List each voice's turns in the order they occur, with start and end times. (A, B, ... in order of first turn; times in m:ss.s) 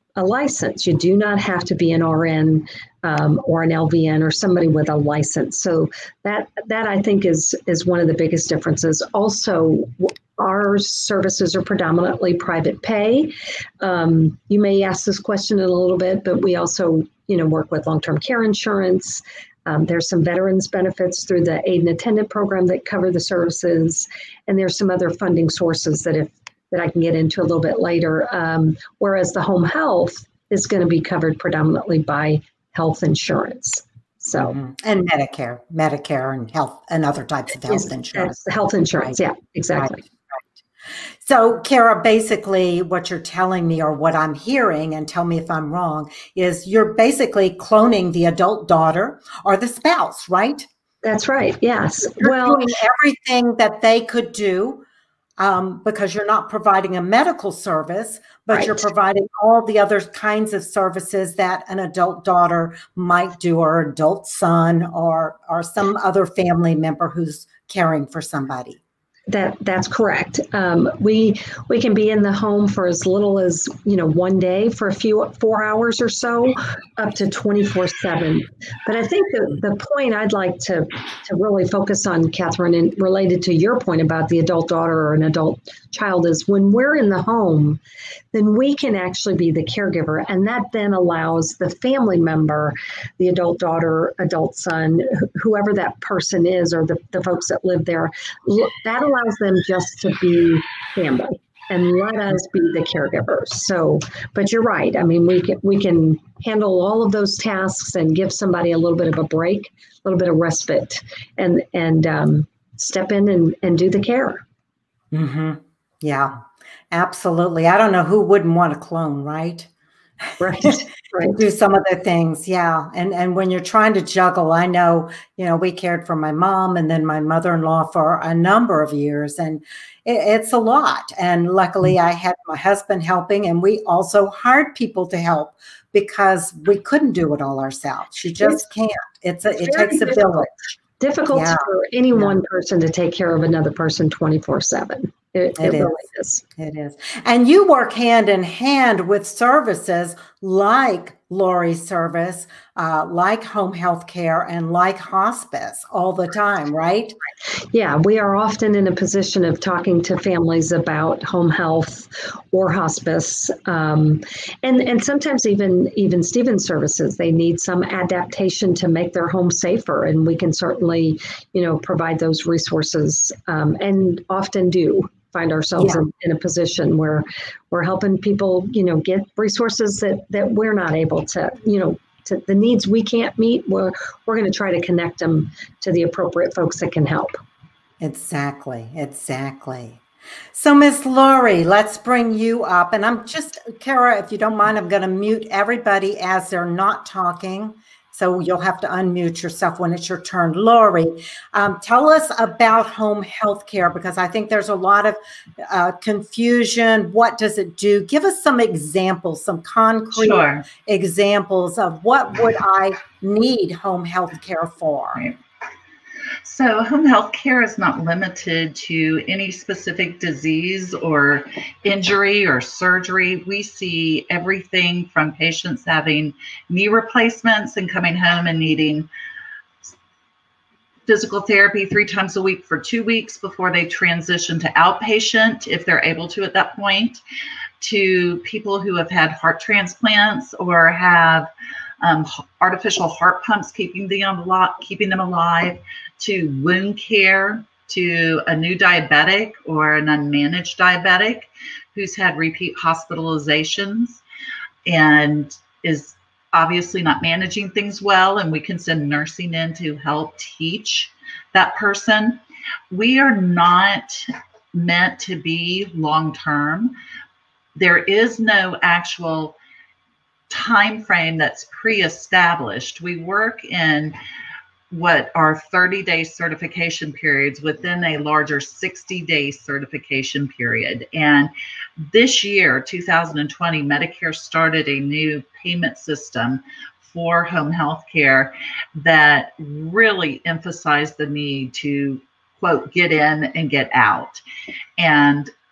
0:00.2-0:34.6 A
0:34.4-0:38.4 B
0:37.6-0:40.0 A
0:39.7-0:40.6 B
0:41.2-0:50.7 B
0:51.0-0:52.7 A
0:52.2-0:54.8 B
0:55.4-1:08.8 B
0:58.5-0:58.8 A
1:09.3-1:27.8 A
1:28.3-1:54.4 A
1:55.1-1:56.4 B
1:56.9-1:59.7 B
2:00.2-2:20.7 B
2:00.4-2:01.4 A
2:19.6-2:26.4 A
2:21.3-2:21.6 B
2:25.6-2:26.0 B
2:26.6-2:37.2 B
2:37.7-3:07.4 A
3:08.0-3:10.0 B
3:10.5-3:35.3 B
3:30.1-3:30.6 C
3:36.4-3:49.1 C
3:51.1-3:57.2 C
3:57.8-4:01.5 C
4:02.0-4:14.2 C
4:14.8-4:22.4 C
4:22.9-4:26.9 C
4:27.7-4:29.6 C
4:30.5-4:34.1 C
4:34.9-4:41.5 C
4:42.1-4:54.4 C
4:55.0-4:55.5 C